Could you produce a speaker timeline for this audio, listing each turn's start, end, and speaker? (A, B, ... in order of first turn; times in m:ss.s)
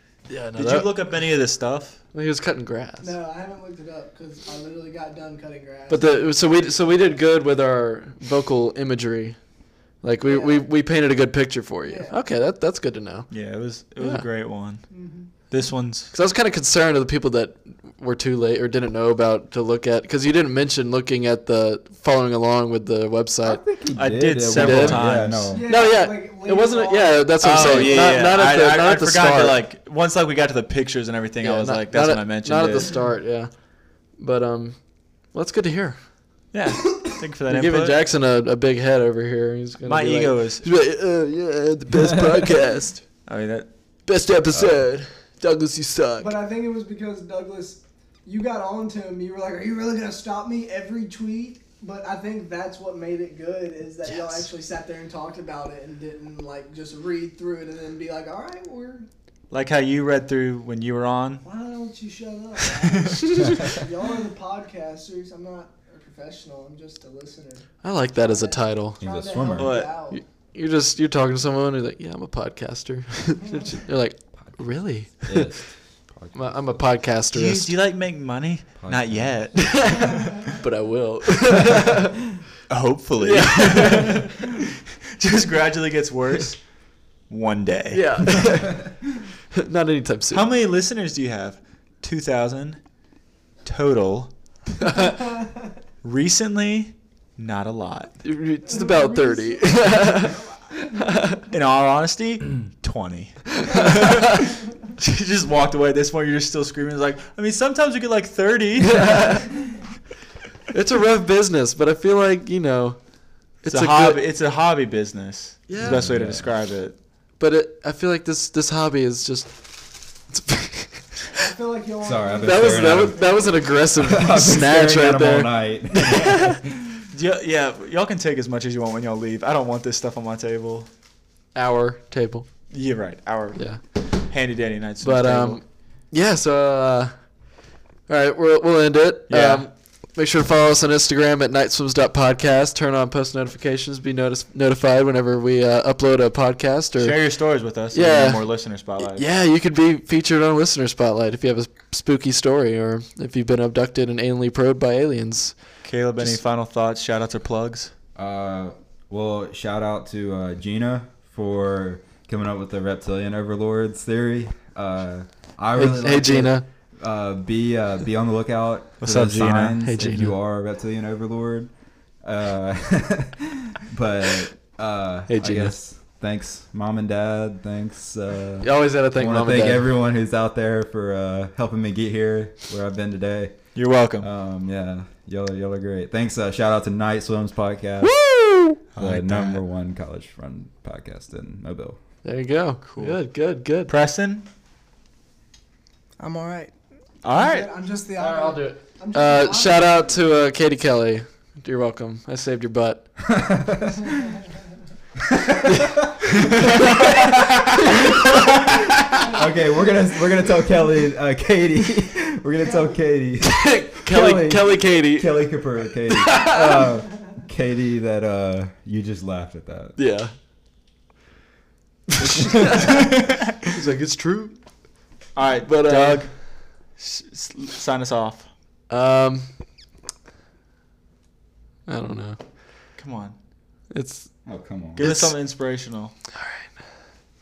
0:00.3-0:01.0 A
0:00.6-0:02.0 B
0:02.1-0:03.1 A
0:03.0-0:07.2 C
0:05.9-0:09.4 A
0:10.0-0:13.3 A
0:10.2-0:10.7 C
0:11.9-0:12.2 C
0:13.3-0:14.9 B
0:14.9-0:15.3 C
0:15.5-0:16.1 B
0:16.1-0:23.6 A
0:23.4-0:25.7 D
0:24.0-0:25.5 B
0:24.5-0:25.1 A
0:25.5-0:28.3 C
0:25.6-0:29.6 A
0:27.4-0:33.0 B
0:31.4-0:33.5 A
0:34.2-0:34.8 A
0:35.3-0:36.0 A
0:36.5-0:38.0 B
0:37.5-0:43.0 A
0:39.8-0:40.6 B
0:43.3-0:43.7 B
0:44.1-0:46.3 A
0:44.5-0:44.8 D
0:46.2-0:59.1 C
0:54.1-0:54.5 A
0:59.5-1:01.4 B
1:01.4-1:10.2 C
1:02.7-1:03.4 B
1:07.8-1:09.0 A
1:09.0-1:09.8 D
1:09.6-1:09.9 B
1:10.1-1:15.6 A
1:13.4-1:13.7 C
1:15.2-1:16.7 D
1:16.3-1:17.7 A
1:17.3-1:20.6 B
1:18.8-1:19.4 D
1:19.6-1:22.2 A
1:20.0-1:20.6 C
1:22.7-1:24.6 B
1:23.2-1:24.3 A
1:25.2-1:26.6 B
1:27.3-1:28.5 B
1:27.9-1:28.9 A
1:29.5-1:30.5 A
1:30.3-1:32.8 B
1:33.6-1:35.1 B
1:36.0-1:38.2 B
1:38.2-1:40.4 A
1:38.7-1:41.2 C
1:41.0-1:41.4 A
1:41.5-1:49.5 B
1:43.7-1:44.4 A
1:48.8-1:49.5 A
1:50.7-1:53.0 A
1:53.6-1:54.2 A
1:53.6-1:57.0 B
1:55.7-1:56.0 A
1:55.8-1:56.5 D
1:57.4-1:59.6 A
2:00.3-2:01.3 A
2:01.4-2:03.6 C
2:02.0-2:03.4 D
2:02.4-2:06.6 A
2:04.0-2:07.1 D
2:07.1-2:10.9 B
2:11.6-2:12.5 A
2:12.7-2:15.6 B
2:13.6-2:13.8 A
2:15.0-2:17.2 A
2:18.1-2:27.2 A
2:19.3-2:19.7 B
2:27.0-2:29.3 B
2:27.9-2:28.4 A
2:29.0-2:35.6 A
2:35.8-2:37.9 B
2:38.2-3:08.2 D
2:45.8-2:46.7 A
2:49.0-2:49.8 B
2:49.8-2:50.4 A
2:55.3-2:55.8 A
2:58.6-2:59.9 A
3:03.8-3:04.3 B
3:08.0-3:08.8 A
3:08.9-3:09.6 B
3:09.0-3:12.0 D
3:12.2-3:13.9 A
3:12.8-3:13.2 B
3:13.9-3:14.4 B
3:16.2-3:16.7 C
3:17.2-3:17.7 B
3:17.3-3:20.2 C
3:18.2-3:23.1 A
3:23.2-3:24.3 D
3:25.2-3:27.2 D
3:25.6-3:25.9 A
3:26.6-3:29.2 A
3:27.9-3:28.4 D
3:29.1-3:40.0 D
3:29.2-3:29.4 C
3:33.4-3:35.5 A
3:36.1-3:36.8 A
3:40.0-3:40.3 A
3:42.2-3:44.6 A
3:42.7-3:43.5 B
3:45.4-3:48.5 B
3:45.6-3:46.3 A
3:48.9-3:49.5 A
3:51.9-3:52.4 A
3:53.0-3:53.4 B
3:53.9-3:54.3 A
3:54.5-3:55.1 D
3:55.0-3:56.1 B
3:55.0-3:55.4 A
3:56.4-3:56.8 A